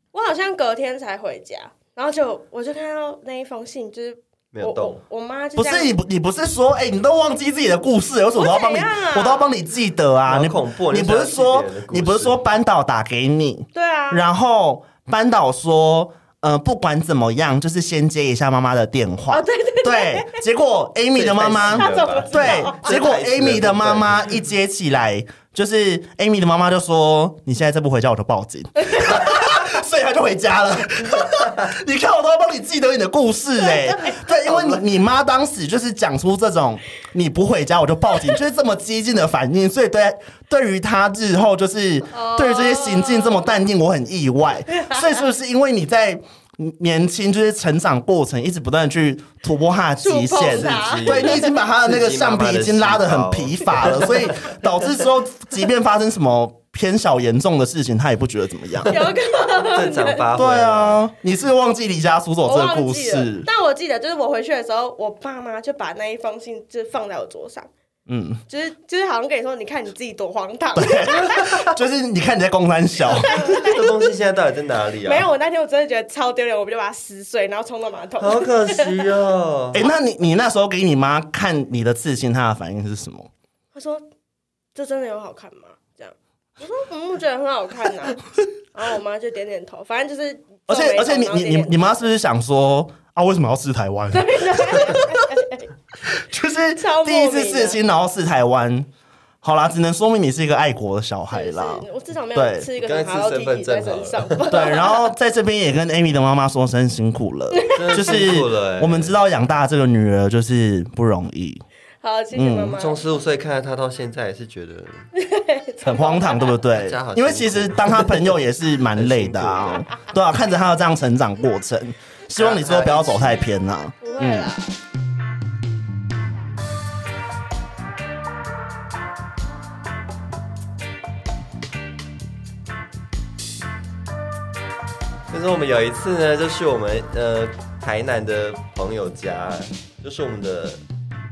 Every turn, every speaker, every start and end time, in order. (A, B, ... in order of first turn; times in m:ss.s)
0:00.1-0:05.9 A
0:04.5-0:05.0 B
0:05.6-0:59.0 C
0:08.4-0:09.5 A
0:10.2-0:12.4 B
0:13.7-0:14.2 A
0:19.3-0:20.4 A
0:21.1-0:24.3 B
0:21.7-0:23.0 A
0:33.7-0:34.1 A
0:34.4-0:34.8 B
0:42.1-0:43.5 A
0:44.8-0:45.1 A
0:50.0-0:51.6 A
0:50.4-0:54.4 B
0:58.9-1:00.2 A
0:59.6-1:01.0 B
1:00.4-1:03.4 C
1:02.4-1:07.7 A
1:08.1-1:08.4 C
1:08.5-1:11.7 A
1:10.7-1:13.4 C
1:13.1-1:13.9 A
1:13.3-1:15.3 B
1:15.0-1:19.0 A
1:18.2-1:19.8 B
1:19.7-1:23.3 C
1:23.7-1:24.0 A
1:24.7-1:31.9 A
1:30.7-1:35.2 C
1:34.1-1:35.7 A
1:36.1-1:38.9 C
1:36.8-1:37.8 A
1:39.4-1:42.7 C
1:41.3-1:45.1 A
1:42.8-1:44.6 B
1:44.5-1:51.6 C
1:47.7-1:49.2 B
1:52.0-1:53.0 A
1:52.3-1:52.8 C
1:52.8-1:55.0 B
1:55.1-1:56.6 A
1:55.8-2:04.5 C
1:56.7-1:58.3 B
1:58.9-1:59.9 B
2:02.3-2:03.3 B
2:04.0-2:04.7 A
2:15.3-2:20.8 B